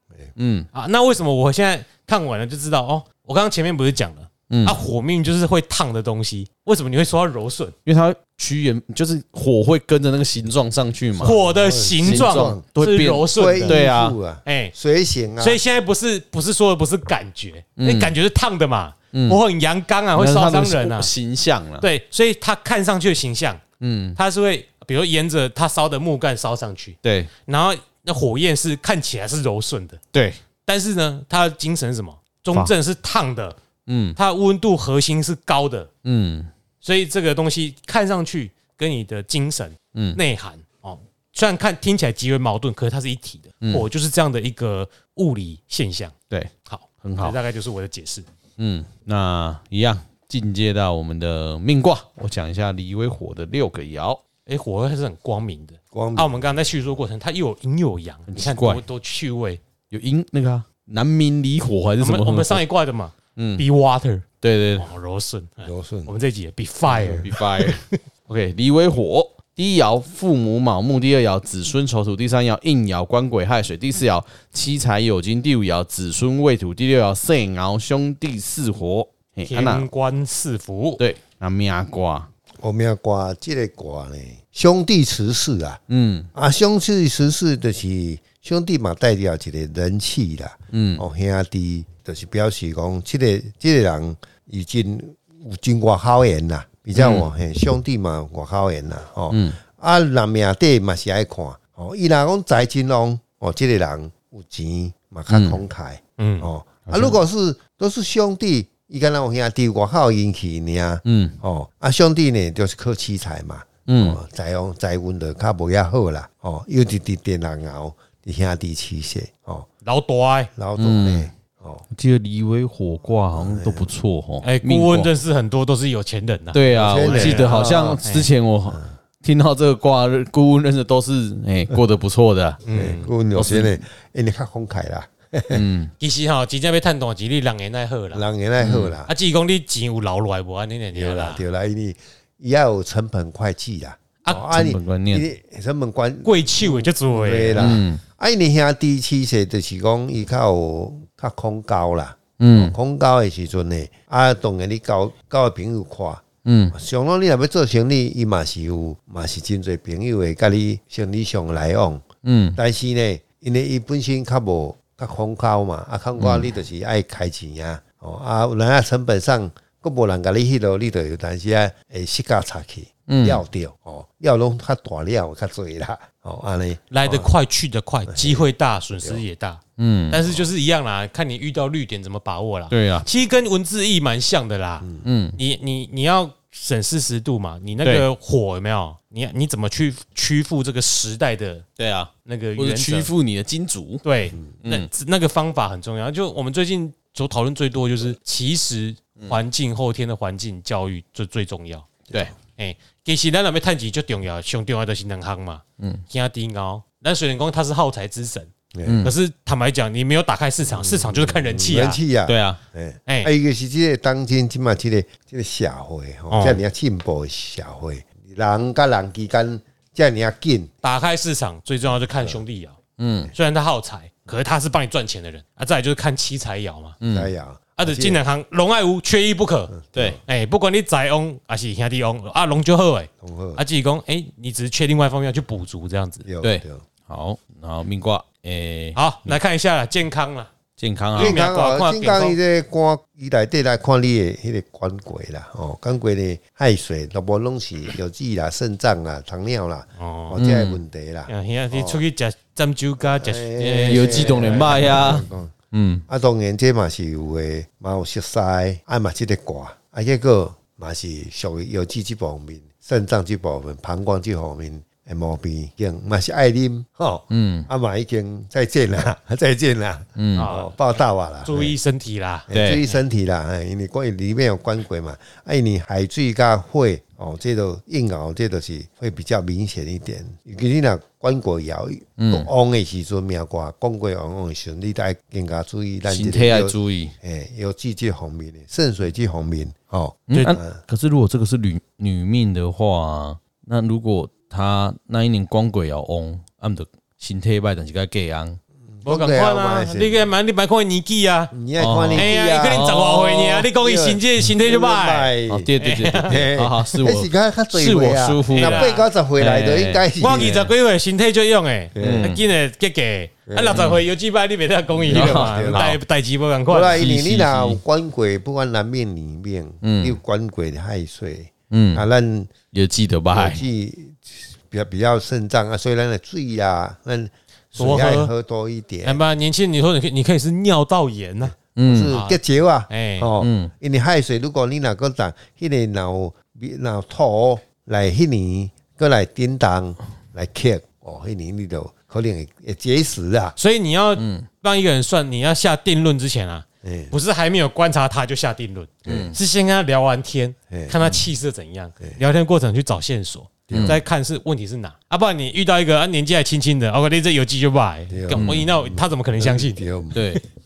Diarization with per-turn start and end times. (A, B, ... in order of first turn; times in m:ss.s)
0:00.4-0:00.7 A
0:00.7-0:07.7 B
0:04.5-0:04.8 A
0:07.8-0:11.4 A
0:11.2-0:12.6 C
0:11.2-0:13.8 B
0:12.0-0:14.2 A
0:13.3-0:15.6 C
0:14.4-0:14.7 B
0:15.4-0:21.1 B
0:17.8-0:18.1 A
0:19.1-0:19.4 A
0:20.1-0:21.8 A
0:21.8-0:23.6 B
0:23.8-0:24.2 A
0:24.2-0:30.0 B
0:27.0-0:27.3 A
0:30.1-0:30.4 A
0:30.6-0:33.6 B
0:33.9-0:34.2 A
0:34.2-0:35.9 B
0:36.0-0:36.5 A
0:36.8-0:48.2 B
0:39.9-0:40.2 A
0:46.3-0:47.4 A
0:48.6-0:54.2 A
0:54.4-0:59.6 B
0:55.9-0:56.4 C
0:58.3-0:58.8 A
0:59.9-1:02.6 A
1:02.0-1:04.2 B
1:03.4-1:03.6 A
1:04.4-1:04.9 A
1:04.8-1:08.0 B
1:05.6-1:06.1 C
1:06.9-1:19.9 A
1:19.5-1:21.0 B
1:21.0-1:22.3 A
1:22.6-1:25.8 C
1:25.9-1:26.3 A
1:26.3-1:59.7 C
1:30.7-1:31.0 A
1:37.0-1:37.3 A
1:39.3-1:39.6 A
1:45.3-1:45.6 A
1:46.2-1:46.5 B
1:46.9-1:47.2 A
1:51.0-1:51.4 A
1:53.9-1:54.2 A
1:59.8-2:00.5 B
2:00.6-2:01.8 C
2:00.8-2:01.3 A
2:01.9-2:05.1 A
2:03.3-2:03.9 C
2:04.4-2:08.3 B
2:06.5-2:12.6 A
2:06.7-2:08.0 C
2:12.6-2:13.1 B
2:12.7-2:15.6 C
2:13.4-2:13.8 A
2:15.5-2:15.9 A
2:16.0-2:18.2 B
2:18.1-2:19.1 C
2:18.6-2:18.9 A
2:19.1-2:21.4 B
2:20.9-2:42.0 C
2:24.4-2:25.2 A
2:26.2-2:27.8 B
2:27.6-2:28.0 A
2:32.4-2:32.7 A
2:36.4-2:36.7 A
2:42.2-2:42.6 A
2:42.6-2:57.3 C
2:46.2-2:46.5 A
2:53.1-2:53.4 A
2:56.9-3:11.6 B
2:58.1-2:59.2 C
2:59.8-3:00.2 A
3:02.7-3:03.0 A
3:04.8-3:05.0 C
3:05.0-3:05.4 A
3:11.8-3:14.0 A
3:12.2-3:13.1 B
3:14.0-3:32.0 B
3:28.7-3:29.0 C
3:28.8-3:29.1 A
3:30.7-3:40.7 C
3:32.3-3:32.6 A
3:33.1-3:33.3 B
3:36.3-3:36.6 B
3:40.8-3:42.8 B
3:43.0-3:43.3 A
3:43.3-3:47.0 B
3:47.0-3:47.3 A
3:47.1-3:48.2 C
3:47.8-3:56.3 B
3:49.7-3:50.2 C
3:53.2-3:53.6 C
3:56.2-3:56.8 C
3:56.4-3:59.4 A
3:58.9-4:00.5 B
4:00.8-4:01.4 A
4:01.1-4:02.4 B
4:01.2-4:12.0 C
4:10.0-4:10.4 B
4:10.4-4:10.8 A
4:11.3-4:15.0 B
4:13.0-4:15.5 C
4:13.9-4:16.0 A
4:16.1-4:31.7 C
4:27.3-4:27.7 A
4:30.2-4:30.5 A
4:30.4-4:30.7 B
4:31.4-4:33.0 B
4:32.5-4:50.8 C
4:32.5-4:32.8 A
4:42.2-4:42.5 A
4:46.1-4:47.1 A
4:50.3-4:58.6 A
4:58.8-5:00.3 C
4:59.0-5:01.5 B
5:01.5-5:05.7 C
5:01.8-5:03.6 A
5:02.1-5:06.5 B
5:05.5-5:10.7 A
5:06.2-5:10.6 C
5:08.5-5:09.1 B
5:10.2-5:17.7 B
5:11.9-5:12.3 C
5:12.0-5:12.4 A
5:13.5-5:13.8 C
5:13.7-5:14.0 A
5:14.9-5:16.0 C
5:15.1-5:16.0 A
5:16.7-5:22.5 C
5:17.4-5:17.8 A
5:19.8-5:20.2 A
5:21.7-5:22.0 A
5:22.7-5:23.6 A
5:23.3-5:29.2 C
5:27.7-5:28.3 B
5:29.0-5:31.6 B
5:31.8-5:32.2 A
5:31.8-5:43.6 C
5:32.1-5:33.3 B
5:33.4-5:33.7 A
5:43.6-6:00.4 B
5:44.2-5:44.4 A
5:46.8-5:47.1 C
5:49.0-5:49.3 C
5:49.1-5:49.3 A
5:50.7-5:51.0 C
5:53.7-5:54.0 C
5:53.7-5:54.0 A
5:58.1-6:00.2 C
5:58.4-5:58.6 A
6:00.1-6:00.4 A